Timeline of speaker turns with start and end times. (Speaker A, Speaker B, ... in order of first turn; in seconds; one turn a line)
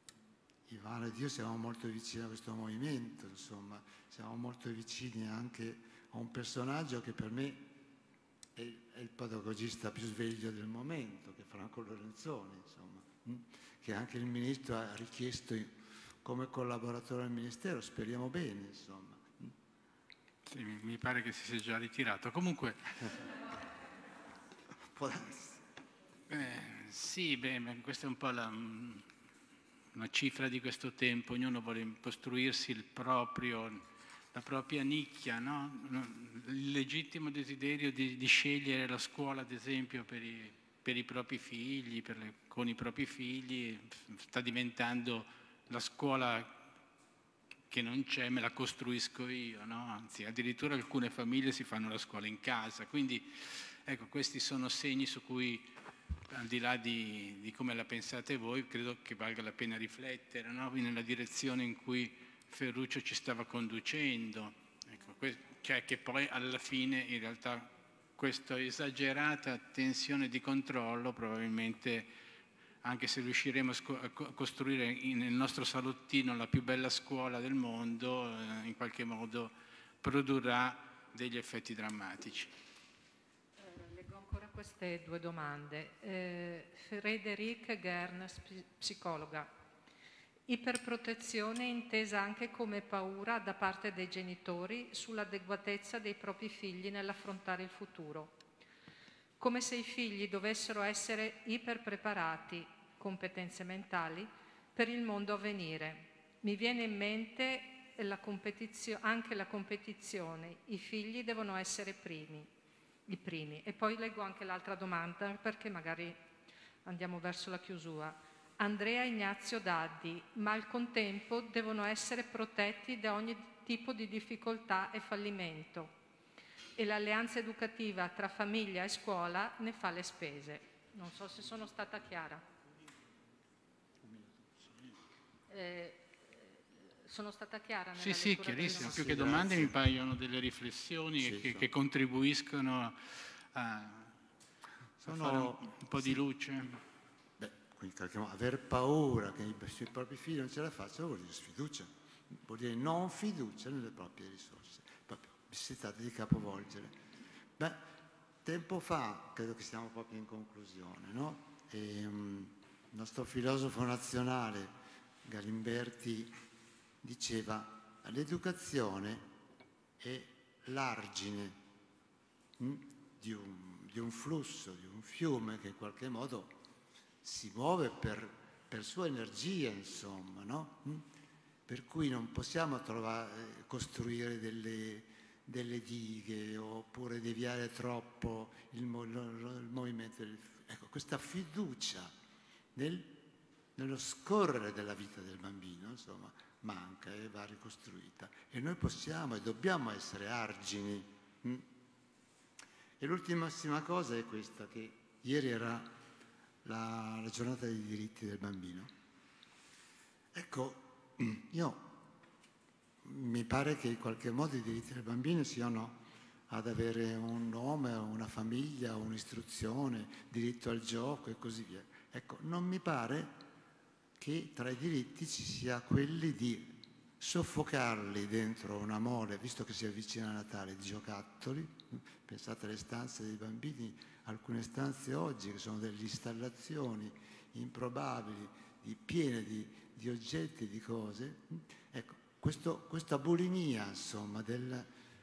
Speaker A: 0.7-7.7
Speaker A: 8.5-19.5
Speaker B: 20.4-23.2
Speaker A: 24.8-25.6
Speaker B: 26.3-29.1
Speaker B: 29.9-46.6
Speaker B: 47.7-55.7
Speaker B: 56.3-72.1
Speaker B: 72.8-82.5
Speaker C: 83.6-89.5
Speaker C: 90.5-98.3
Speaker C: 99.4-112.5
Speaker C: 113.1-116.2
Speaker C: 116.8-125.9
Speaker C: 126.8-132.4
Speaker A: 134.0-134.3
Speaker C: 135.5-139.0
Speaker B: 138.0-144.1
Speaker A: 138.7-139.8
Speaker A: 141.2-141.7
Speaker A: 145.0-146.2
Speaker B: 145.0-146.8
Speaker A: 147.4-156.9
Speaker A: 157.6-157.9
Speaker A: 158.4-164.7
Speaker A: 165.2-166.3
Speaker A: 167.0-169.3
Speaker A: 170.0-171.6
Speaker A: 172.6-176.5
Speaker A: 177.2-181.1
Speaker A: 181.7-192.1
Speaker A: 192.7-201.7
Speaker A: 203.0-205.9
Speaker A: 206.6-208.9
Speaker A: 210.3-212.0
Speaker A: 213.0-223.4
Speaker A: 224.2-244.9